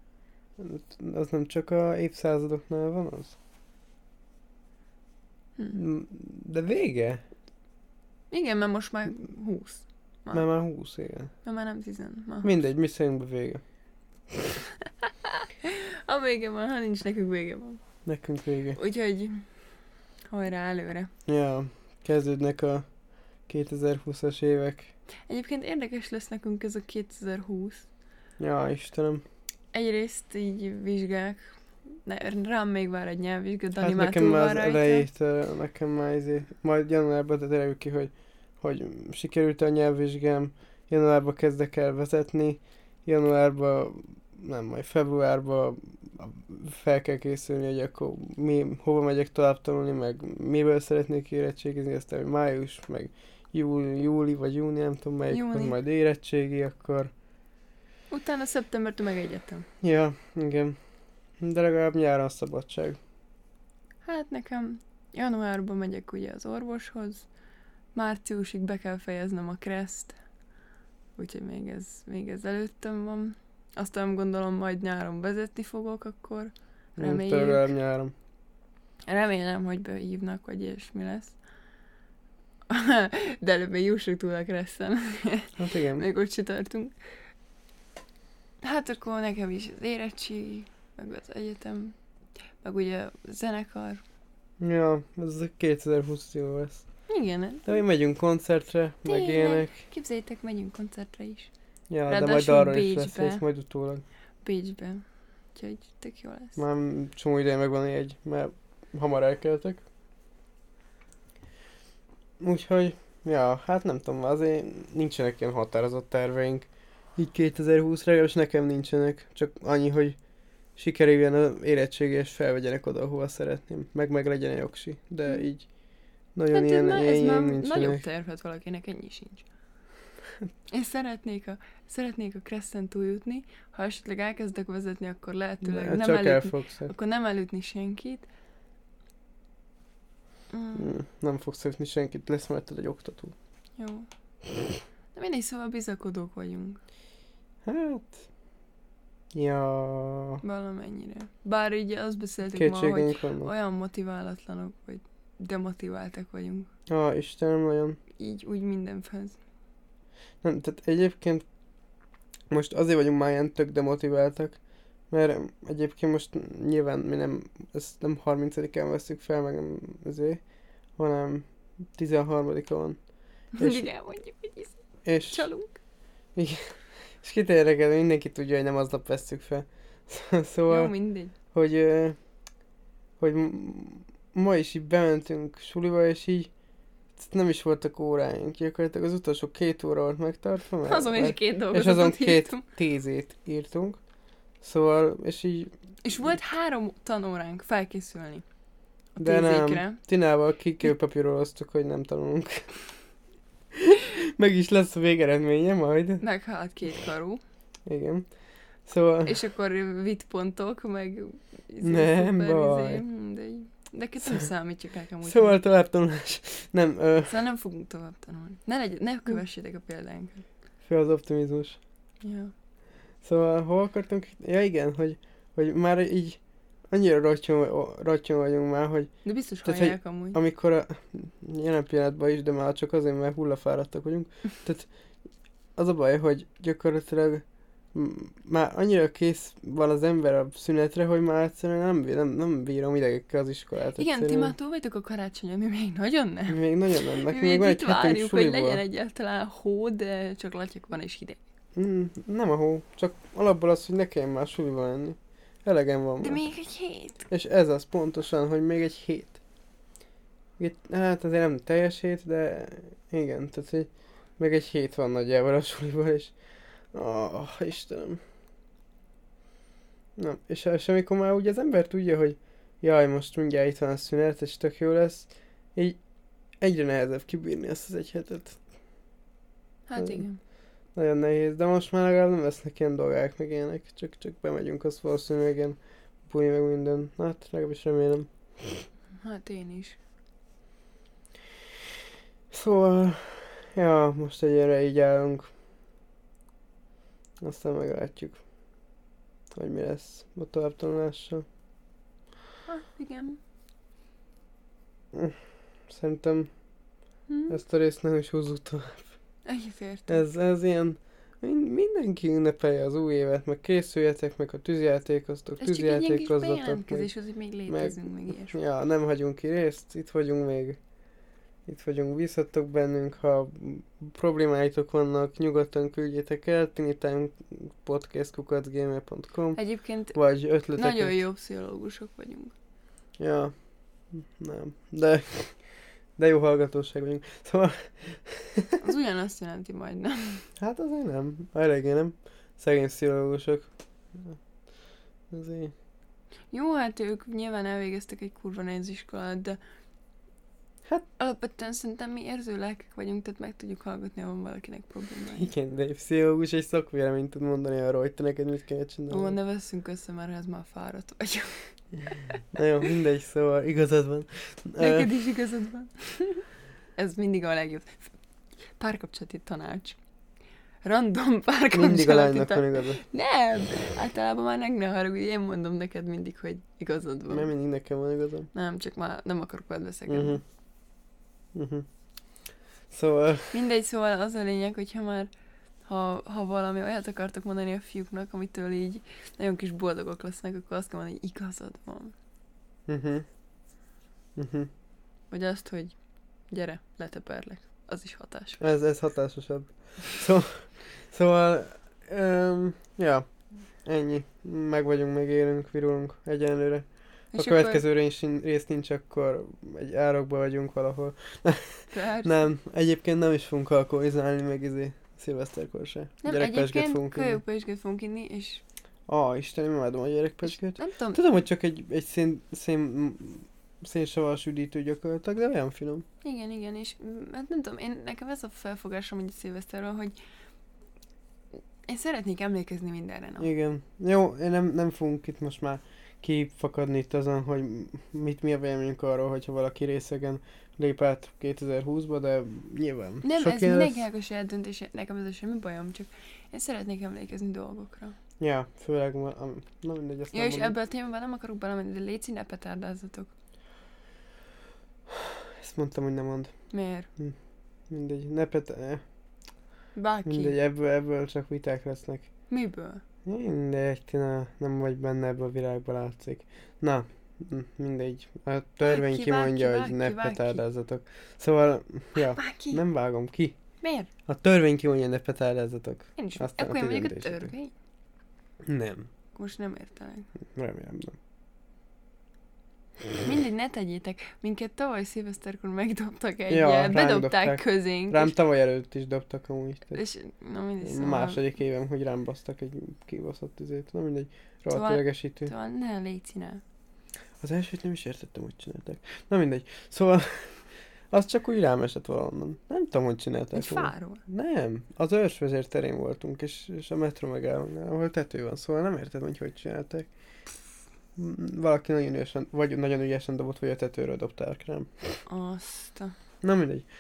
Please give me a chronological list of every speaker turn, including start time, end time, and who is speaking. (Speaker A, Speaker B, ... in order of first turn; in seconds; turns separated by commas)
Speaker A: 0.6-3.4, Speaker A: 5.8-7.2, Speaker B: 8.3-10.5, Speaker A: 10.3-11.3, Speaker B: 11.4-12.5, Speaker A: 12.4-13.6, Speaker B: 15.6-17.8, Speaker A: 18.1-18.8, Speaker B: 18.8-19.5, Speaker B: 20.3-21.1, Speaker A: 21.3-22.9, Speaker A: 23.4-24.9, Speaker B: 25.3-27.9, Speaker A: 28.4-29.2, Speaker B: 29.7-31.5, Speaker B: 32.0-35.1, Speaker A: 33.8-57.1, Speaker B: 55.3-55.8, Speaker B: 58.1-59.7, Speaker A: 59.8-60.8, Speaker A: 61.4-63.0, Speaker B: 64.0-67.3, Speaker B: 67.9-70.2, Speaker B: 71.2-77.7, Speaker A: 77.0-78.1, Speaker B: 79.1-81.4, Speaker B: 82.7-86.9, Speaker A: 85.6-86.1, Speaker B: 88.6-92.0, Speaker B: 92.6-94.0, Speaker A: 94.6-96.9, Speaker B: 97.1-97.7, Speaker A: 97.7-99.7, Speaker B: 99.0-101.5, Speaker A: 101.9-104.0, Speaker B: 102.1-103.4, Speaker B: 104.4-105.0, Speaker B: 105.5-106.6, Speaker A: 106.6-109.8, Speaker A: 112.4-120.2, Speaker A: 120.8-125.7, Speaker B: 125.3-125.5, Speaker A: 126.3-128.0, Speaker B: 126.5-129.4, Speaker B: 130.7-138.3, Speaker A: 135.6-136.9, Speaker B: 140.5-140.9, Speaker A: 140.8-143.3, Speaker B: 143.8-144.1, Speaker B: 145.1-146.8, Speaker A: 147.7-148.2, Speaker A: 149.3-150.4, Speaker B: 150.4-156.7, Speaker A: 152.5-153.5, Speaker A: 156.9-158.0, Speaker B: 158.2-159.4, Speaker A: 160.4-161.4, Speaker A: 162.5-164.6, Speaker A: 165.1-170.4, Speaker A: 171.0-173.0, Speaker B: 173.5-175.8, Speaker A: 173.6-173.9, Speaker A: 175.1-175.5, Speaker A: 176.4-180.9, Speaker B: 180.7-181.3, Speaker A: 181.5-182.2, Speaker A: 183.2-186.5, Speaker A: 187.2-194.0, Speaker B: 190.9-192.6, Speaker A: 194.6-195.7, Speaker B: 196.0-198.4, Speaker B: 199.2-200.0, Speaker A: 199.2-202.7, Speaker A: 203.9-206.2, Speaker B: 206.2-207.4, Speaker A: 207.9-208.3, Speaker A: 208.8-209.3, Speaker B: 209.2-215.6, Speaker A: 211.8-213.0, Speaker A: 215.2-217.4, Speaker B: 217.3-220.4, Speaker A: 220.8-221.8, Speaker B: 222.2-222.5, Speaker A: 223.2-229.1, Speaker B: 229.2-230.4, Speaker A: 229.6-234.9, Speaker A: 235.8-244.5, Speaker B: 244.0-246.6, Speaker A: 246.5-248.8, Speaker B: 247.3-251.4, Speaker A: 251.8-256.4, Speaker B: 256.2-257.3, Speaker A: 257.3-259.4, Speaker A: 260.6-266.4, Speaker A: 266.9-268.2, Speaker A: 270.2-276.0, Speaker A: 276.6-278.6, Speaker B: 279.9-280.4, Speaker A: 280.0-280.2, Speaker A: 280.9-288.9, Speaker B: 289.2-290.0, Speaker A: 292.5-295.5, Speaker A: 297.4-298.4, Speaker A: 299.5-301.4, Speaker B: 302.7-303.4, Speaker A: 305.1-306.5, Speaker B: 307.3-307.6, Speaker A: 307.5-309.1, Speaker B: 309.4-310.2, Speaker A: 310.1-317.1, Speaker B: 315.6-318.6, Speaker A: 317.7-320.8, Speaker A: 321.7-331.2, Speaker B: 329.6-332.5, Speaker A: 333.2-335.6, Speaker A: 336.2-338.8, Speaker B: 338.8-340.5, Speaker A: 340.6-344.4, Speaker A: 345.3-345.7, Speaker B: 346.5-349.6, Speaker B: 351.2-355.5, Speaker A: 355.3-359.4, Speaker B: 359.1-362.4, Speaker A: 362.5-365.1, Speaker B: 364.8-368.1, Speaker B: 368.8-370.0, Speaker B: 370.8-377.5, Speaker A: 371.7-373.0, Speaker A: 377.3-378.5, Speaker B: 378.5-380.4, Speaker A: 380.1-380.4, Speaker A: 381.5-381.9, Speaker A: 382.9-383.6, Speaker B: 383.5-385.3, Speaker B: 385.9-392.1, Speaker A: 392.9-393.3, Speaker A: 394.4-394.7, Speaker B: 395.3-395.9, Speaker B: 396.5-398.6, Speaker A: 398.6-403.3, Speaker A: 403.8-417.4, Speaker B: 407.3-407.8, Speaker B: 411.9-412.5, Speaker B: 416.2-418.6, Speaker A: 419.1-426.1, Speaker B: 420.6-421.2, Speaker B: 426.2-430.2, Speaker B: 431.9-433.5, Speaker A: 433.4-444.0, Speaker B: 443.2-448.2, Speaker A: 448.4-450.8, Speaker B: 450.3-453.3, Speaker A: 455.6-456.5, Speaker B: 456.7-457.1, Speaker A: 457.9-459.0, Speaker B: 459.9-460.6, Speaker A: 460.3-462.3, Speaker B: 462.5-463.0, Speaker A: 463.2-473.6, Speaker B: 468.8-470.6, Speaker B: 472.2-472.8, Speaker B: 473.8-474.1, Speaker A: 474.3-477.5, Speaker B: 476.2-477.7, Speaker A: 478.7-479.1, Speaker B: 479.4-480.3, Speaker A: 480.6-481.2, Speaker B: 483.2-488.4, Speaker A: 486.5-490.0, Speaker B: 489.9-491.4, Speaker A: 490.8-495.5, Speaker B: 494.7-496.6, Speaker A: 497.4-510.1, Speaker B: 503.5-504.2, Speaker A: 511.2-515.2, Speaker B: 515.3-516.2, Speaker A: 516.4-516.9